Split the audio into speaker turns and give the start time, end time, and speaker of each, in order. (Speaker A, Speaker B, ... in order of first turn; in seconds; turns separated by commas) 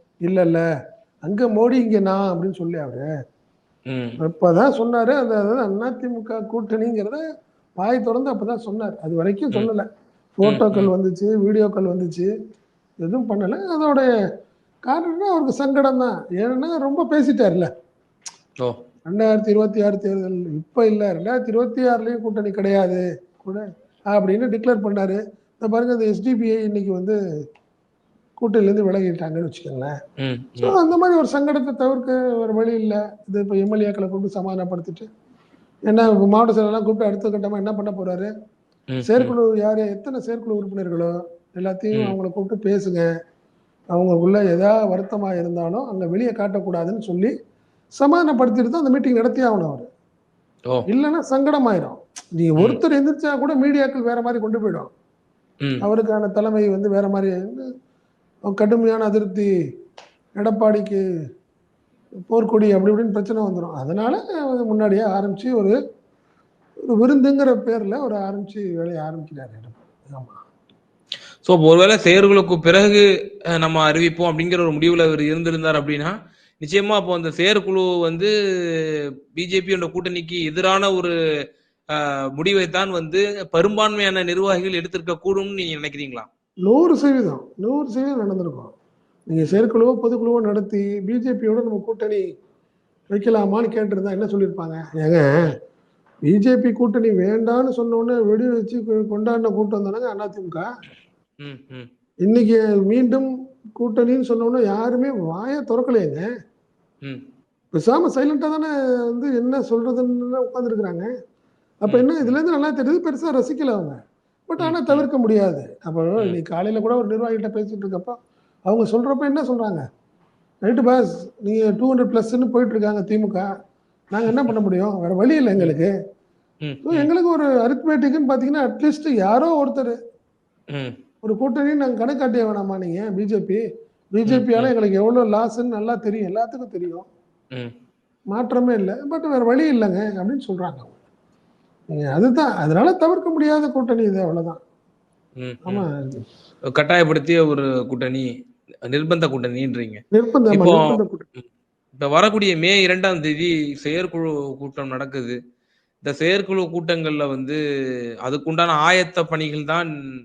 Speaker A: 0.2-0.6, Speaker A: 1.2-3.0, Speaker B: 3.9-4.2, Speaker A: 4.2-7.2, Speaker A: 7.8-12.3, Speaker B: 10.4-10.9, Speaker A: 13.0-14.1, Speaker A: 14.9-17.7, Speaker A: 19.1-27.2, Speaker A: 28.4-29.9, Speaker B: 30.2-30.7, Speaker A: 30.6-35.0, Speaker A: 35.9-38.3, Speaker B: 38.9-39.3, Speaker A: 39.0-43.0, Speaker A: 43.9-47.3, Speaker A: 48.0-49.9, Speaker A: 50.9-54.9, Speaker A: 55.8-57.7, Speaker A: 58.5-59.5, Speaker A: 60.4-61.0, Speaker A: 62.3-65.8, Speaker A: 66.9-70.4, Speaker B: 71.4-81.1, Speaker B: 81.9-86.3, Speaker A: 86.7-88.7, Speaker A: 89.3-92.2, Speaker B: 89.4-89.6, Speaker A: 93.1-95.2, Speaker A: 96.2-100.6, Speaker B: 101.4-101.9, Speaker A: 102.2-106.2, Speaker A: 107.7-111.1, Speaker A: 111.8-118.2, Speaker B: 111.9-112.4, Speaker B: 114.6-115.1, Speaker A: 118.7-119.8, Speaker A: 120.7-123.5, Speaker A: 124.1-125.9, Speaker B: 126.6-127.1, Speaker A: 126.8-129.9, Speaker A: 131.2-133.6, Speaker A: 134.1-137.1, Speaker B: 134.2-134.7, Speaker A: 138.3-140.9, Speaker A: 141.9-144.6, Speaker B: 145.4-145.9, Speaker A: 145.7-146.2, Speaker B: 146.7-148.3, Speaker B: 148.9-150.0, Speaker A: 150.1-151.2, Speaker B: 150.5-151.4, Speaker B: 152.0-155.3, Speaker B: 156.0-157.6, Speaker B: 158.2-159.9